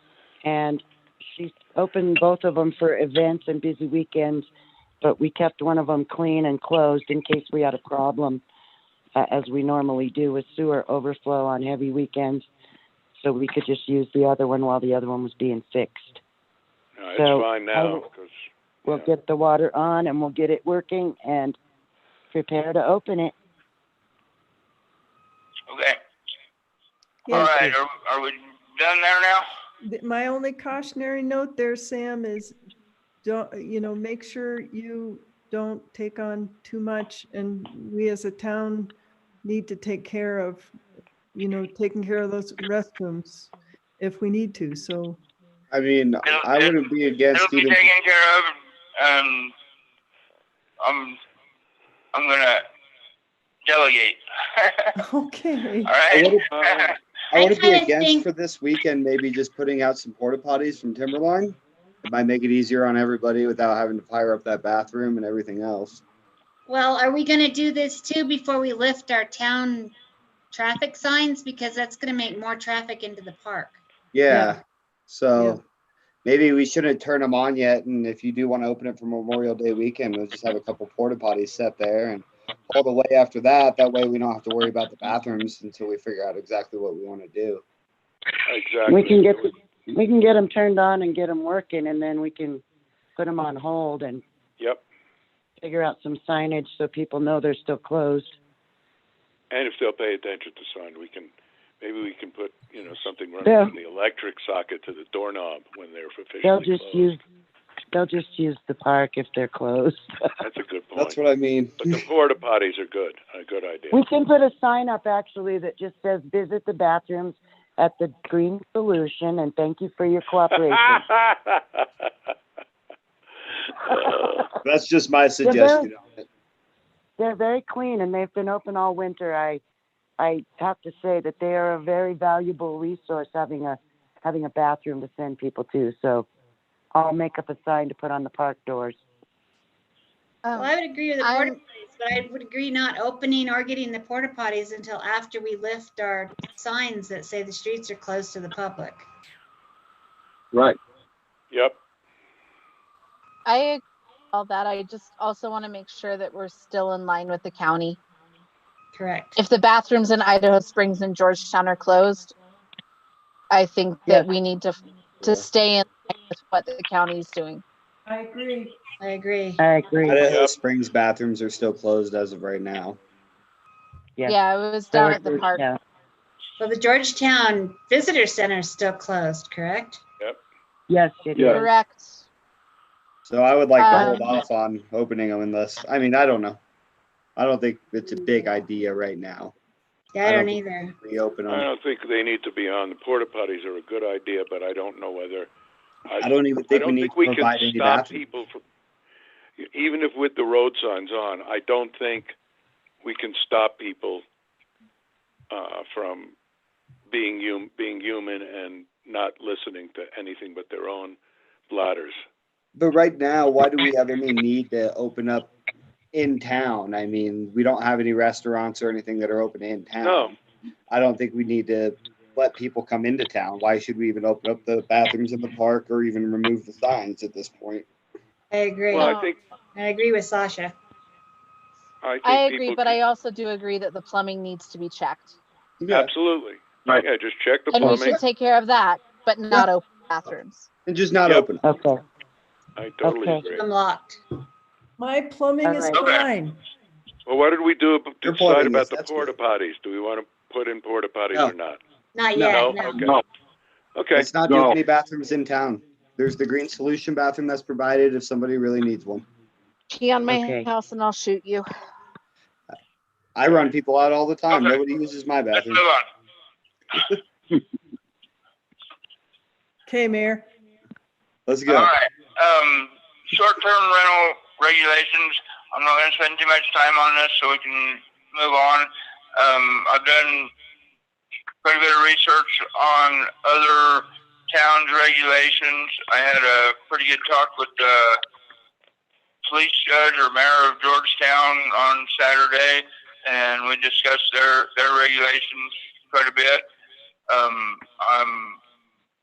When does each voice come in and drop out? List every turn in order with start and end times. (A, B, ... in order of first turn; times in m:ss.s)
0:00.4-0:04.5 A
0:05.0-0:08.4 A
0:09.2-0:12.5 A
0:13.2-0:16.2 A
0:17.0-0:18.3 B
0:17.2-0:18.1 A
0:18.9-0:21.6 A
0:22.3-0:23.4 A
0:25.7-0:26.0 C
0:27.3-0:27.8 D
0:27.3-0:29.5 C
0:29.8-0:32.6 D
0:33.2-0:40.7 D
0:41.3-0:45.2 D
0:45.7-0:47.9 E
0:46.2-0:49.6 C
0:50.8-0:51.2 C
0:52.1-0:52.7 C
0:53.6-0:54.9 C
0:55.0-0:56.0 D
0:55.9-0:57.0 C
0:56.1-0:56.5 E
0:56.5-0:56.8 B
0:57.3-1:06.0 E
0:57.4-0:58.2 F
1:06.7-1:10.0 F
1:10.5-1:13.8 F
1:14.1-1:15.6 E
1:14.3-1:14.6 D
1:16.2-1:27.6 E
1:28.5-1:29.5 B
1:28.9-1:32.6 A
1:33.2-1:34.2 A
1:35.6-1:38.4 A
1:39.5-1:47.1 B
1:43.4-1:43.8 A
1:46.4-1:47.2 A
1:47.9-1:50.3 A
1:50.4-1:51.2 B
1:51.0-1:52.0 E
1:51.8-1:54.0 B
1:53.9-2:01.0 A
2:01.0-2:01.6 B
2:03.9-2:04.4 B
2:04.6-2:06.2 E
2:05.4-2:05.9 A
2:07.2-2:09.6 A
2:10.2-2:16.3 A
2:17.0-2:19.0 A
2:20.4-2:21.5 G
2:20.5-2:29.1 F
2:31.5-2:31.8 B
2:33.5-2:33.8 G
2:34.3-2:38.0 G
2:38.9-2:39.4 F
2:39.4-2:42.4 G
2:43.5-2:47.6 G
2:48.1-2:48.8 D
2:49.0-2:49.6 F
2:49.6-2:50.2 A
2:50.0-2:53.0 E
2:50.2-2:50.5 B
2:54.3-2:55.6 G
2:54.9-2:55.8 A
2:56.6-3:00.0 F
3:00.9-3:01.7 A
3:01.5-3:02.2 G
3:03.2-3:06.6 E
3:03.8-3:04.4 G
3:03.9-3:04.2 A
3:07.4-3:09.5 E
3:10.1-3:11.0 F
3:10.2-3:11.7 E
3:11.5-3:15.5 B
3:16.1-3:18.6 B
3:16.2-3:18.2 E
3:19.6-3:22.3 B
3:23.0-3:24.2 B
3:25.5-3:26.4 B
3:27.1-3:31.2 B
3:31.7-3:32.2 B
3:32.8-3:35.5 E
3:36.1-3:40.4 E
3:40.0-3:40.3 B
3:40.9-3:47.9 E
3:48.5-3:49.2 F
3:48.9-3:49.4 B
3:48.9-3:49.3 G
3:49.8-3:50.8 F
3:52.0-3:53.0 B
3:52.2-3:55.4 G
3:55.8-3:56.1 E
3:55.9-3:58.2 B
3:57.7-4:00.7 G
3:57.9-3:58.2 E
4:00.9-4:01.6 E
4:01.3-4:01.5 B
4:01.6-4:02.0 A
4:02.8-4:03.6 B
4:03.0-4:03.4 A
4:03.5-4:04.2 F
4:05.0-4:06.6 D
4:05.6-4:06.0 A
4:06.0-4:06.3 C
4:07.3-4:11.8 B
4:08.2-4:09.3 E
4:12.2-4:13.1 F
4:12.4-4:12.6 E
4:12.4-4:13.2 B
4:14.0-4:14.3 B
4:14.1-4:19.2 E
4:19.9-4:21.7 G
4:20.3-4:20.7 A
4:23.4-4:25.8 E
4:24.5-4:24.8 C
4:25.6-4:26.1 C
4:29.9-4:30.5 D
4:31.5-4:31.9 E
4:31.7-4:40.5 C
4:41.6-4:48.2 C
4:49.4-4:56.7 C
4:57.3-4:58.6 C